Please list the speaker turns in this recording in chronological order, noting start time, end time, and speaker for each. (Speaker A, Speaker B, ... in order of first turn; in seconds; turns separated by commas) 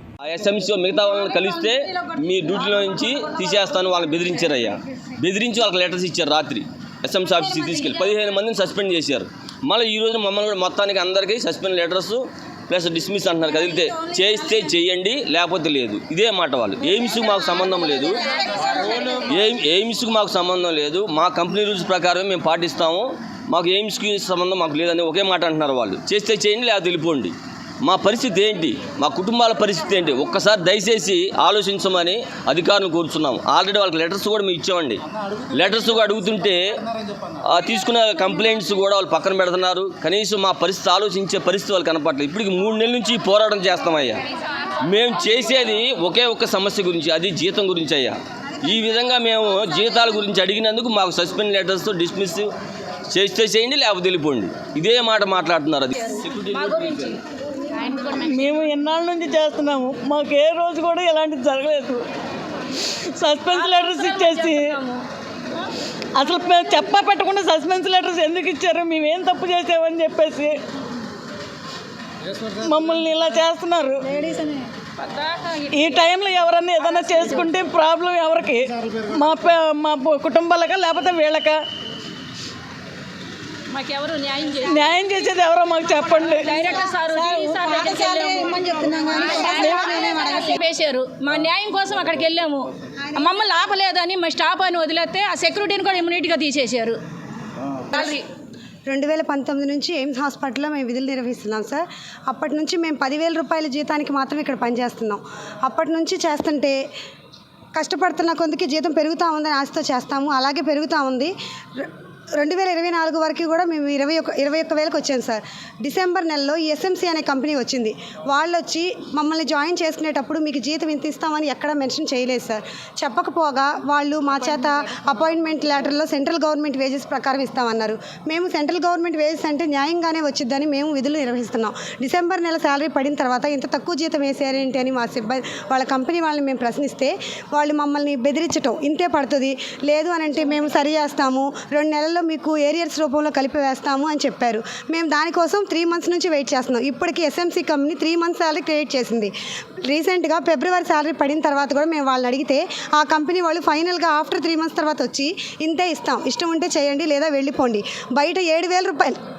Speaker A: 0.2-35.0, Speaker A: 35.5-36.6, Speaker A: 37.5-44.2, Speaker A: 44.8-52.5, Speaker A: 53.1-57.2, Speaker B: 56.7-57.0, Speaker B: 57.7-58.2, Speaker C: 58.1-62.0, Speaker C: 62.8-64.8, Speaker B: 63.6-65.0, Speaker C: 66.2-70.5, Speaker C: 72.4-74.6, Speaker B: 75.0-75.7, Speaker C: 75.7-81.6, Speaker B: 83.7-84.8, Speaker C: 84.7-86.5, Speaker B: 86.4-97.0, Speaker D: 88.8-89.4, Speaker C: 89.4-90.0, Speaker D: 93.0-93.5, Speaker D: 97.9-98.2, Speaker B: 98.0-98.2, Speaker D: 98.9-106.8, Speaker D: 107.8-149.3, Speaker D: 149.8-159.2